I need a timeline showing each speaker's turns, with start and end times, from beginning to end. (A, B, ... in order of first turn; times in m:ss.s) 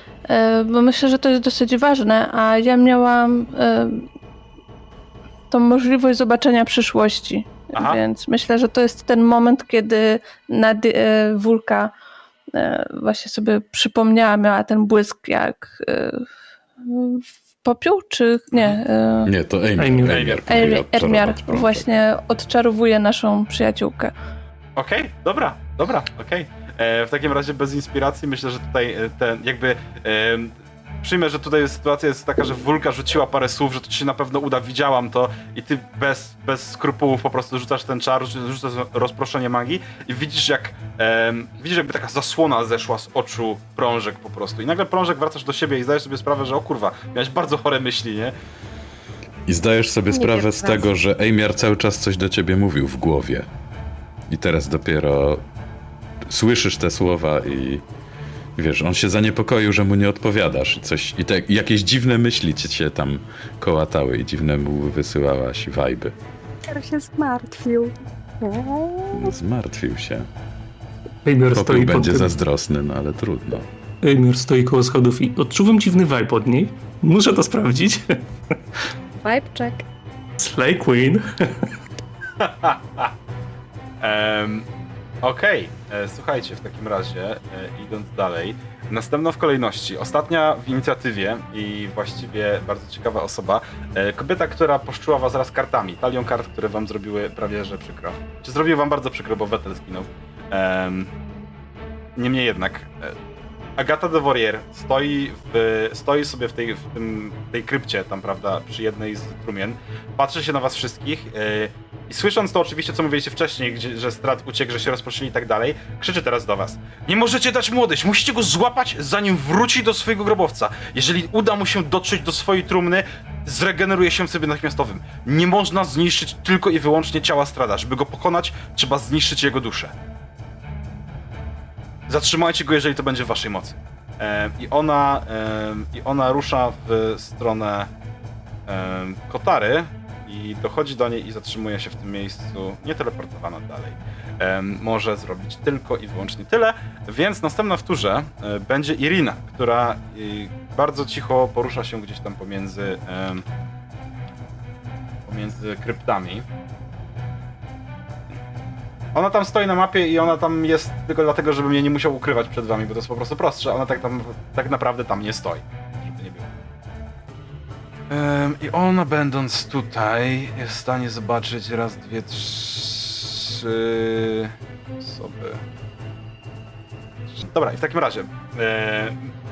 0:00.3-0:04.1 A
0:05.5-0:11.9 A
0:07.8-0:08.0 B
0:12.5-0:16.3 A
0:16.8-0:19.3 A
0:19.2-0:22.0 C
0:19.8-0:20.2 D
0:20.1-0:20.4 B
0:20.4-0:24.1 A
0:24.8-0:48.4 B
0:49.5-0:53.5 C
0:50.1-0:50.9 E
0:54.3-0:55.4 C
0:56.3-0:57.8 C
0:58.6-1:06.1 C
1:06.7-1:09.3 E
1:09.1-1:10.3 C
1:11.2-1:12.3 D
1:11.5-1:13.7 C
1:14.0-1:18.2 D
1:19.2-1:19.8 E
1:20.4-1:21.7 D
1:22.4-1:23.1 B
1:24.0-1:24.7 B
1:25.2-1:41.1 B
1:42.2-1:43.2 B
1:43.8-2:09.9 B
2:12.1-2:17.9 B
2:18.7-2:33.4 B
2:35.3-2:36.4 B
2:39.1-2:46.5 B
2:48.1-2:55.6 B
2:57.3-2:59.3 B